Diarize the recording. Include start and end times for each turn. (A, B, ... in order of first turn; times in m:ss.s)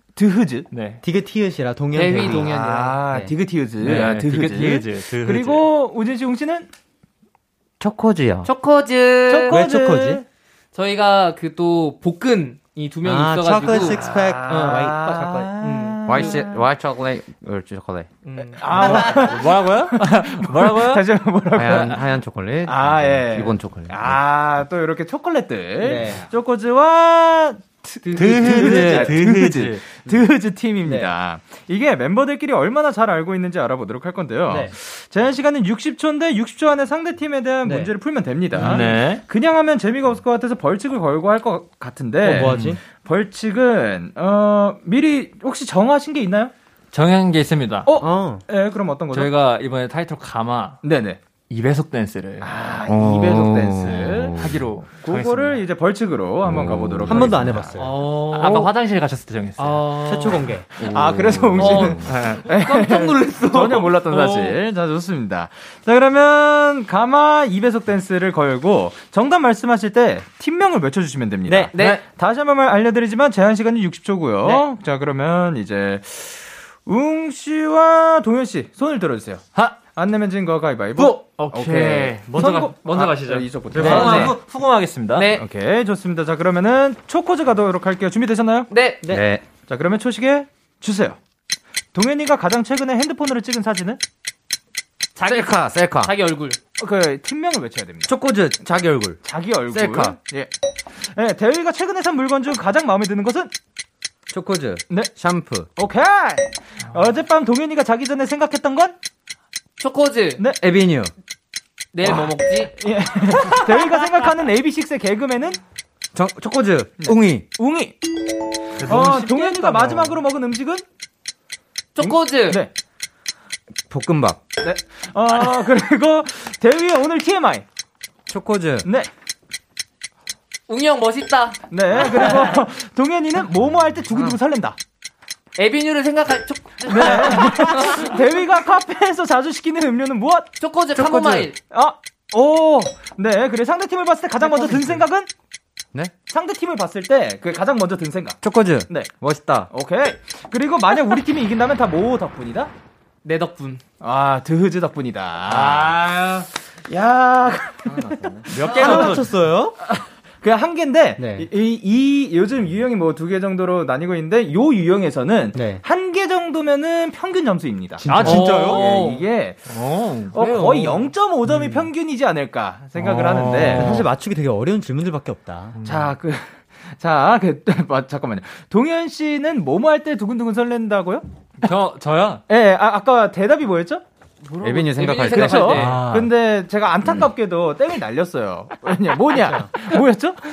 0:00.2-0:00.7 A
0:00.7-0:01.0 B
0:01.0-0:02.5 C
0:01.9-0:03.1 D
0:02.1-0:06.7 A
0:03.8-0:05.7 B
0:07.8-0:08.5 E
0:08.4-0:09.6 D
0:09.3-0:10.2 A
0:09.5-0:10.2 C
0:10.7-0:16.4 D
0:13.0-0:15.5 C
0:13.8-0:16.6 A
0:16.1-0:18.1 E
0:18.2-0:18.8 D
0:18.4-0:22.1 A
0:18.8-0:21.0 B
0:21.5-0:24.2 E
0:22.6-0:46.5 A
0:25.8-0:26.2 C
0:28.0-0:29.0 D
0:28.1-0:29.8 B
0:28.5-0:29.0 C
0:37.6-0:37.9 C
0:38.6-0:39.2 B
0:42.2-0:42.8 C
0:42.3-0:42.8 B
0:46.9-0:47.9 B
0:47.9-0:49.3 A
0:48.0-0:48.4 C
0:49.1-0:50.8 B
0:50.8-0:51.2 A
0:51.5-0:52.5 B
0:52.4-0:54.4 A
0:52.9-0:54.7 E
0:53.8-0:55.6 B
0:55.0-0:57.8 A
0:56.4-0:57.5 E
0:57.1-0:57.9 C
0:57.8-0:58.7 D
0:58.0-1:00.0 B
0:59.6-1:00.6 D
1:00.0-1:00.6 C
1:00.8-1:24.4 A
1:00.8-1:02.0 E
1:01.6-1:04.6 D
1:02.0-1:02.4 B
1:11.5-1:12.0 D
1:11.8-1:12.0 B
1:21.0-1:25.3 B
1:23.7-1:24.3 C
1:23.9-1:24.3 D
1:25.1-1:25.4 D
1:25.2-1:28.7 A
1:28.7-1:29.0 D
1:29.1-1:29.4 E
1:29.7-1:31.2 A
1:31.9-1:34.0 A
1:35.2-1:36.6 D
1:35.2-1:36.1 E
1:36.8-1:38.1 A
1:38.1-1:40.2 E
1:39.2-1:43.5 A
1:44.3-1:45.7 E
1:45.8-1:48.9 A
1:49.8-1:50.4 D
1:50.6-1:51.1 E
1:51.9-1:52.7 D
1:52.0-1:55.6 A
1:56.1-1:57.4 E
1:57.0-1:58.0 A
1:58.8-2:00.0 B
1:58.8-2:00.8 A
2:02.0-2:02.6 D
2:02.0-2:02.7 A
2:03.9-2:04.4 E
2:04.6-2:07.6 A
2:08.3-2:08.9 E
2:10.7-2:12.6 D
2:11.7-2:14.8 A
2:15.6-2:18.2 D
2:16.9-2:20.5 A
2:20.6-2:21.6 D
2:20.9-2:21.5 E
2:21.7-2:25.3 A
2:24.5-2:24.8 D
2:26.3-2:29.1 A
2:28.4-2:29.7 E
2:29.7-2:32.7 A
2:33.2-2:33.8 D
2:34.0-2:36.0 A
2:35.5-2:36.5 B
2:36.9-2:39.1 A
2:38.5-2:39.3 B
2:38.7-2:39.8 C
2:39.8-2:49.6 A
2:41.2-2:41.5 C
2:45.6-2:45.8 C
2:48.0-2:48.8 C
2:48.0-2:49.0 B
2:48.2-2:49.2 D
2:49.7-2:50.4 B
2:50.3-2:54.0 A
2:50.4-2:51.1 D
2:51.5-2:51.8 C
2:53.0-2:54.0 B
2:53.7-2:55.8 C
2:55.8-2:56.1 B
2:55.8-3:01.2 A
3:01.6-3:02.4 B
3:02.5-3:04.0 A
3:04.4-3:06.0 D
3:04.6-3:05.8 E
3:05.1-3:10.4 A
3:05.6-3:06.3 B
3:09.3-3:09.7 C